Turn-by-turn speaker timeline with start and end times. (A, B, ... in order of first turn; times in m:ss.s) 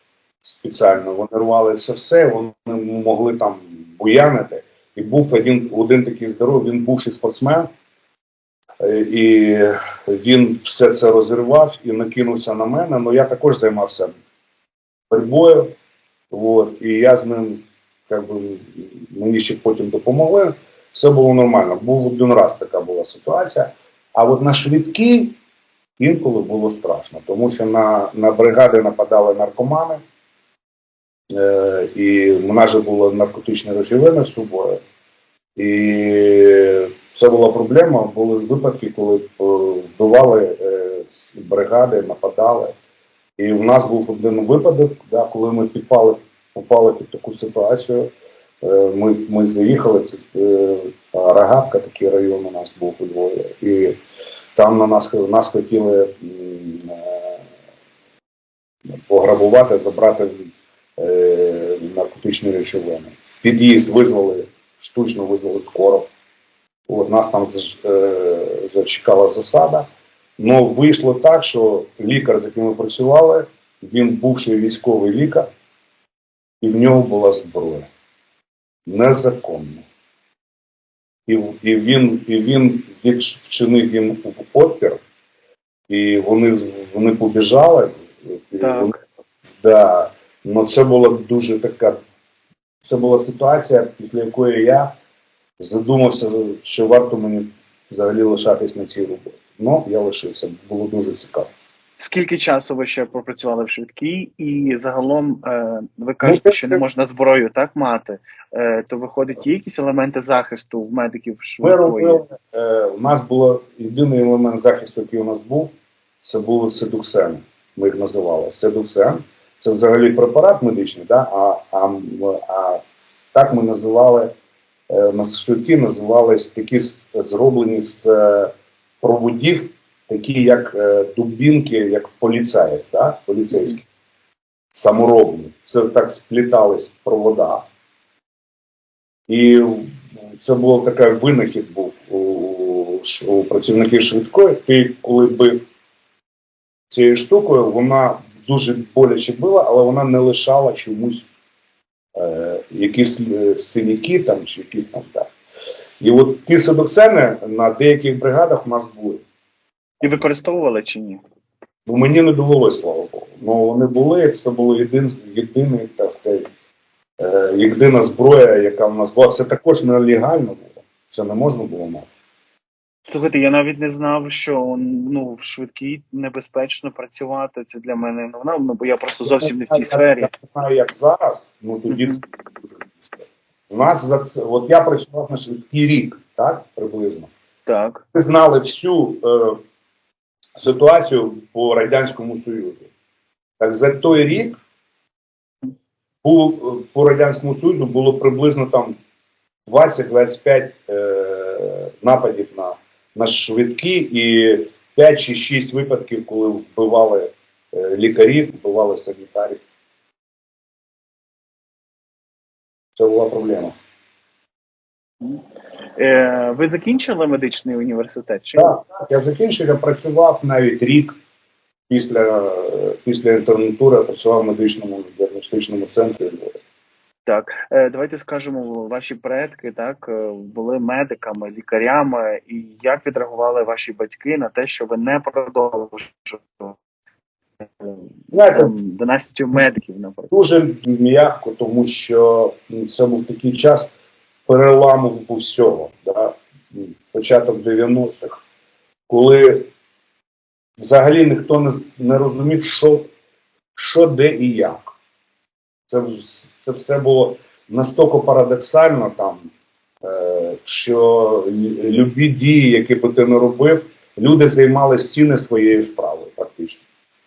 0:00.4-0:07.7 A
0:08.8-0:14.1 A
0:15.1-0:15.8 A
0:16.3-0:25.4 A
0:26.0-0:30.0 A
0:31.3-0:34.8 A
0:35.6-0:42.7 A
0:43.4-0:48.1 A
0:48.6-0:54.0 A
0:54.6-0:57.4 A
0:59.1-1:06.1 A
1:06.9-1:09.9 A
1:10.4-1:15.5 A
1:16.6-1:17.9 A
1:18.9-1:19.8 A
1:21.3-1:25.0 A
1:25.9-1:28.9 A
1:28.6-1:29.0 B
1:29.6-1:32.0 A
1:32.8-1:35.0 A
1:35.6-1:41.5 A
1:42.0-1:52.2 B
1:46.2-1:46.8 A
1:51.6-2:04.3 A
2:04.9-2:13.8 A
2:13.5-2:13.8 B
2:14.7-2:17.7 A
2:19.3-2:25.6 A
2:26.9-2:31.3 A
2:32.2-2:35.3 A
2:36.0-2:39.2 A
2:40.0-2:41.2 B
2:41.9-2:46.4 A
2:47.2-2:52.1 A
2:53.1-3:00.3 B
2:59.2-3:02.2 A
3:01.9-3:02.2 B
3:02.9-3:07.3 A
3:07.7-3:08.0 B
3:08.1-3:09.6 A
3:10.6-3:12.9 A
3:13.6-3:14.6 A
3:16.2-3:19.0 A
3:19.7-3:29.6 A
3:33.0-3:33.8 A
3:36.0-3:38.8 B
3:38.6-3:41.2 A
3:41.9-3:46.5 A
3:47.3-3:56.8 B
3:57.8-4:00.3 B
3:58.3-3:58.7 A
4:00.3-4:03.9 A
4:04.5-4:08.4 A
4:09.1-4:09.7 A
4:10.8-4:13.1 A
4:13.8-4:14.9 A
4:15.9-4:19.5 A
4:20.0-4:26.8 A